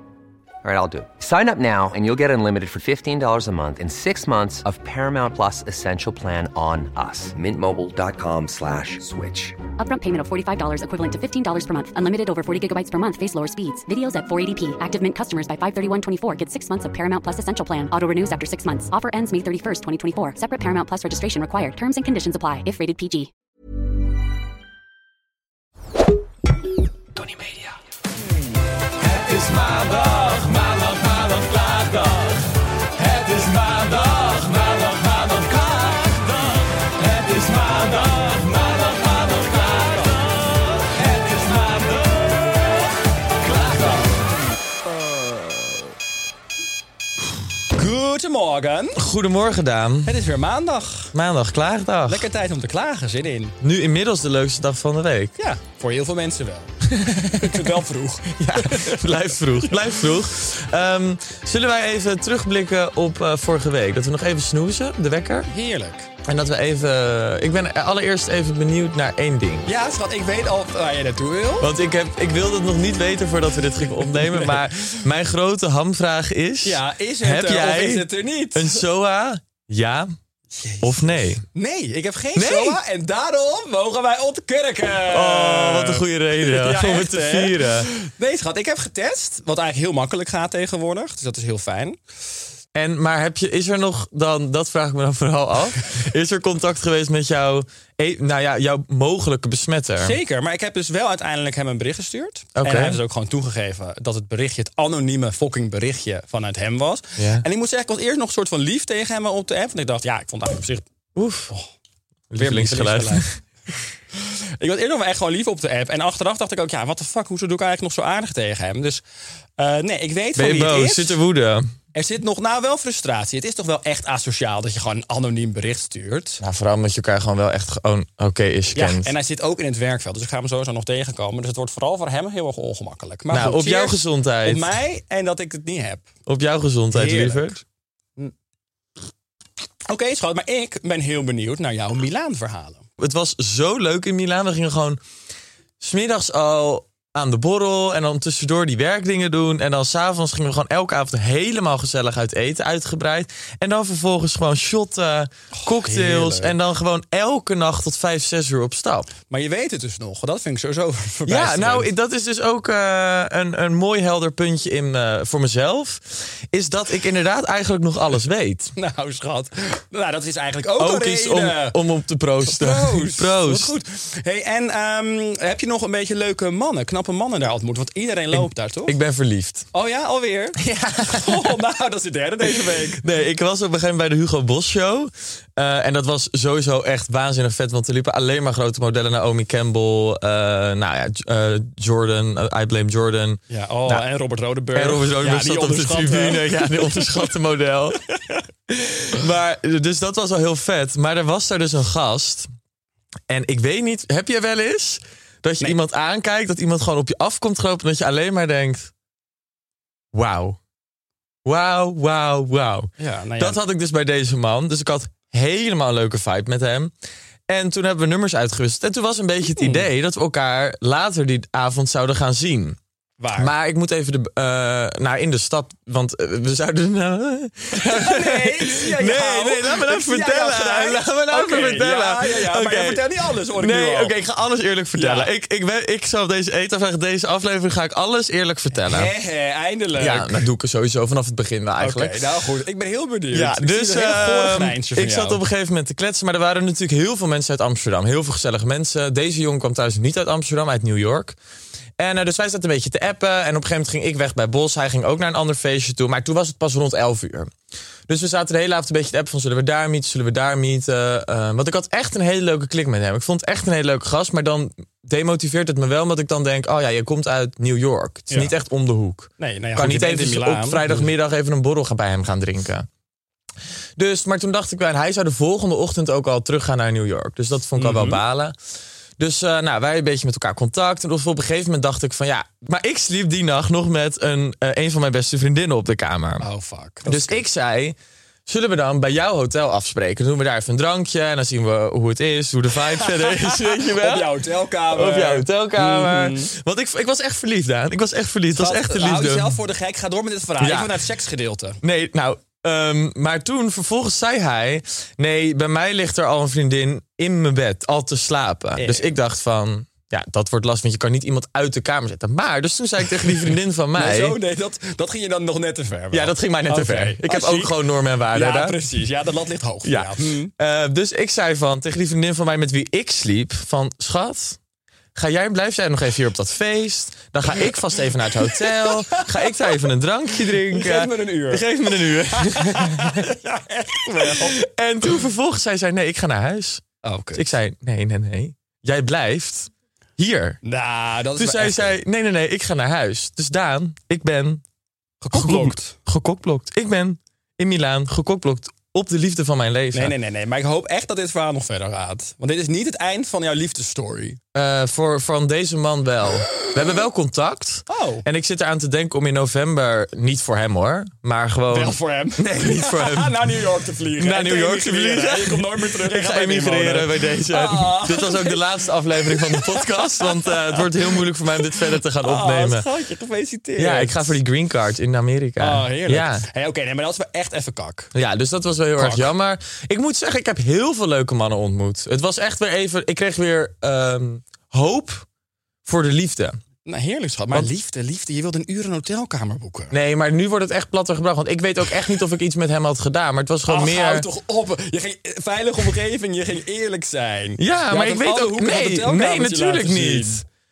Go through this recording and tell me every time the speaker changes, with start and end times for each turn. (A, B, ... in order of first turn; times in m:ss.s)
0:00.6-0:09.6 A
0:09.8-0:23.3 B
0:29.0-0:42.5 C
0:43.4-0:44.0 C
0:43.6-0:44.1 D
0:47.7-0:49.0 D
0:49.0-0:50.2 C
0:50.0-0:51.1 D
0:51.1-0:52.3 C
0:52.1-0:53.5 D
0:53.6-0:55.3 C
0:55.4-0:56.7 D
0:56.9-0:57.7 C
0:57.3-0:59.9 D
0:58.3-1:05.5 C
1:05.5-1:06.1 D
1:06.2-1:09.7 C
1:09.6-1:11.7 D
1:11.6-1:20.1 C
1:14.2-1:14.6 D
1:16.6-1:18.8 D
1:20.5-1:32.0 D
1:20.8-1:21.4 C
1:22.3-1:22.8 C
1:25.1-1:27.9 C
1:32.7-1:40.2 C
1:40.0-1:50.8 D
1:42.6-1:43.0 C
1:47.2-1:47.4 C
1:51.2-1:51.5 C
1:52.3-1:53.3 C
1:52.4-1:53.3 D
1:54.1-1:59.0 D
1:59.6-2:01.2 D
2:00.3-2:01.7 C
2:01.9-2:06.4 D
2:06.4-2:09.1 C
2:08.7-2:16.1 D
2:13.3-2:14.7 C
2:16.3-2:17.6 C
2:16.9-2:17.6 D
2:19.9-2:22.8 D
2:23.0-2:25.0 C
2:25.8-2:39.1 C
2:35.6-2:36.5 D
2:39.3-2:41.9 D
2:41.2-2:48.7 C
2:48.8-2:51.8 D
2:50.8-2:53.7 C
2:52.4-2:59.0 D
2:58.3-2:59.7 C
2:59.7-3:03.0 D
3:00.6-3:01.6 C
3:02.4-3:14.0 C
3:13.5-3:17.2 D
3:14.7-3:18.0 C
3:18.7-3:22.5 C
3:23.3-3:28.9 C
3:30.1-3:30.6 C
3:31.4-3:36.9 C
3:33.0-3:33.6 D
3:37.5-3:42.8 C
3:39.6-3:39.8 D
3:43.2-3:43.5 D
3:43.4-3:59.1 C
3:47.7-3:54.1 D
3:55.0-3:55.3 D
3:58.8-4:00.4 D
4:00.0-4:02.2 C
4:01.8-4:05.4 D
4:03.3-4:11.4 C
4:12.0-4:17.5 C
4:18.1-4:32.9 C
4:29.4-4:31.1 D
4:34.0-4:38.6 C
4:37.8-4:38.2 D
4:39.2-4:46.5 C
4:46.4-4:47.4 D
4:47.0-4:48.0 C
4:48.5-4:59.6 C
4:53.0-4:56.5 D
4:58.6-5:01.8 D
5:00.6-5:00.9 C
5:01.8-5:14.4 C
5:08.8-5:09.1 D
5:13.9-5:17.7 D
5:16.1-5:18.8 C
5:18.3-5:20.5 D
5:19.8-5:24.6 C
5:25.1-5:33.3 C
5:28.4-5:29.7 D
5:30.5-5:34.6 D
5:34.2-5:40.6 C
5:37.0-5:37.4 D
5:40.6-5:41.9 D
5:41.3-5:44.6 C
5:45.2-5:45.9 D
5:45.3-5:50.1 C
5:49.9-5:54.4 D
5:54.5-6:03.6 C
5:57.9-5:58.2 D
6:01.7-6:08.6 D
6:04.1-6:12.8 C
6:09.1-6:14.3 D
6:13.8-6:16.4 C
6:15.6-6:18.1 D
6:18.1-6:25.2 C
6:19.0-6:19.3 D
6:25.8-6:26.6 C
6:26.8-6:29.9 D
6:29.9-6:34.3 C
6:33.6-6:40.4 D
6:37.6-6:40.4 C